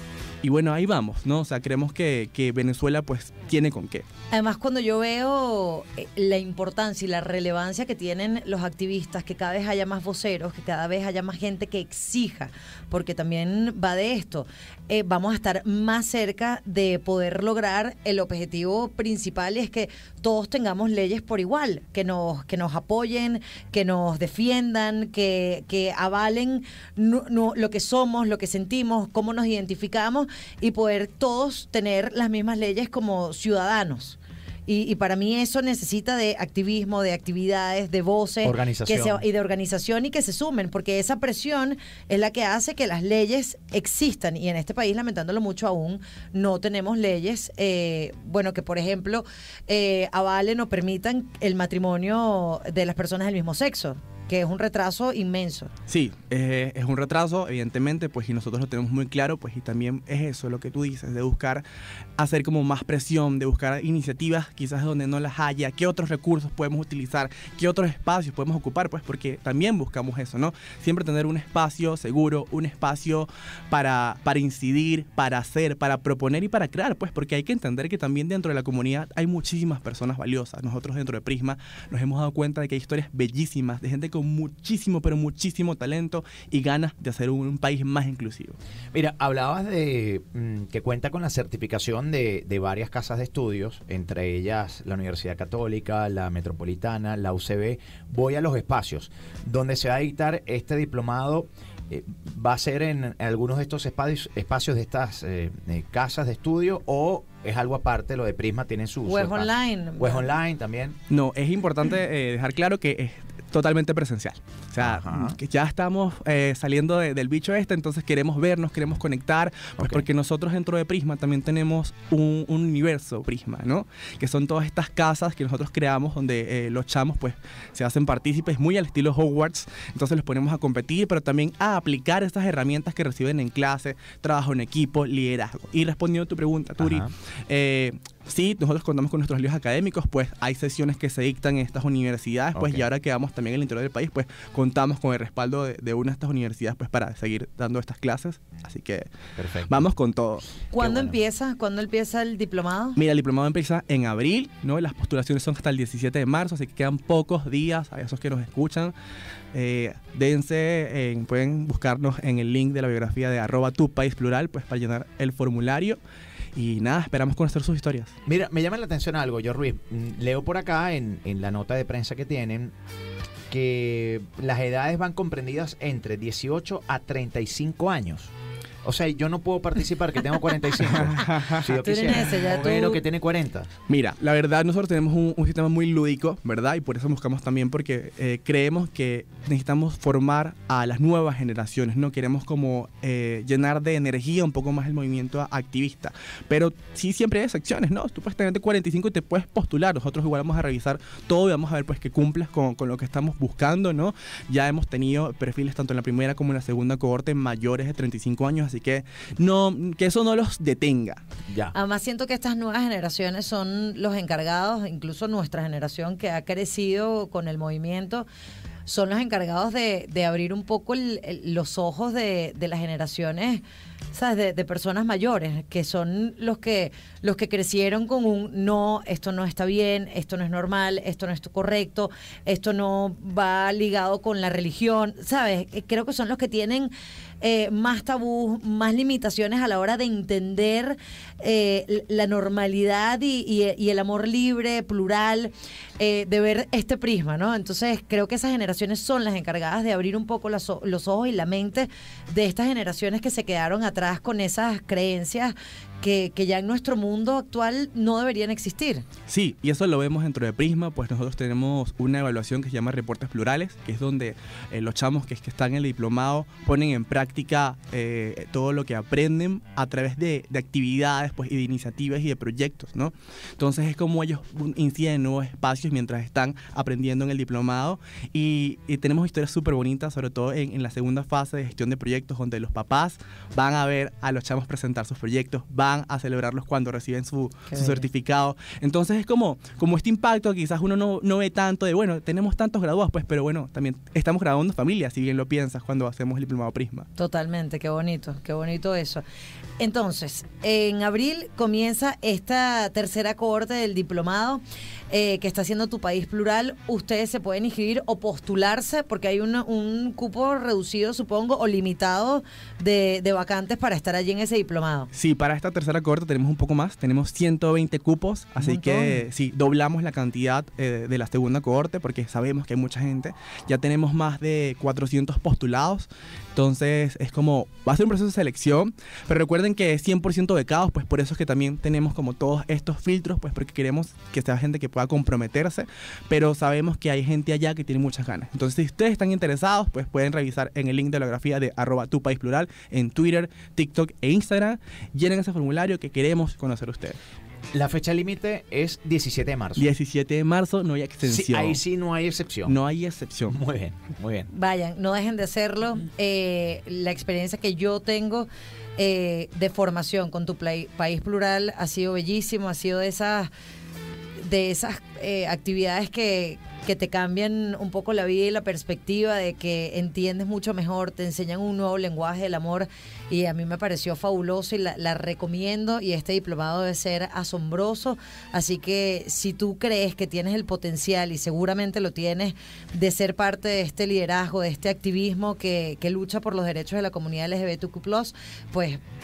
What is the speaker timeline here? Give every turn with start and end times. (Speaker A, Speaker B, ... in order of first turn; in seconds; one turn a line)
Speaker A: 0.4-4.0
Speaker B: 4.3-55.7
Speaker C: 38.4-39.2
Speaker A: 55.9-61.6
Speaker A: 62.2-88.6
Speaker C: 88.9-111.0
Speaker B: 109.0-110.2
Speaker A: 111.1-149.1
Speaker C: 114.8-115.4
Speaker C: 136.8-137.1
Speaker C: 142.6-142.8
Speaker C: 149.3-149.9
Speaker A: 149.7-150.4
Speaker B: 150.7-153.0
Speaker C: 150.7-151.2
Speaker A: 153.0-158.9
Speaker A: 159.5-166.0
Speaker A: 166.5-168.1
Speaker C: 168.3-172.7
Speaker C: 173.5-178.3
Speaker C: 178.8-183.7
Speaker A: 180.8-182.8
Speaker B: 181.7-183.0
Speaker A: 183.9-211.2
Speaker C: 211.5-211.7
Speaker B: 211.7-218.2
Speaker B: 218.8-259.0
Speaker A: 259.3-297.1
Speaker B: 287.7-288.1
Speaker B: 297.2-299.2
Speaker B: 299.8-315.1
Speaker A: 315.1-347.2
Speaker B: 318.8-319.1
Speaker C: 347.7-349.9
Speaker A: 349.8-351.8
Speaker C: 351.2-352.8
Speaker A: 352.6-353.6
Speaker C: 353.5-354.5
Speaker B: 354.5-363.5
Speaker B: 364.4-389.0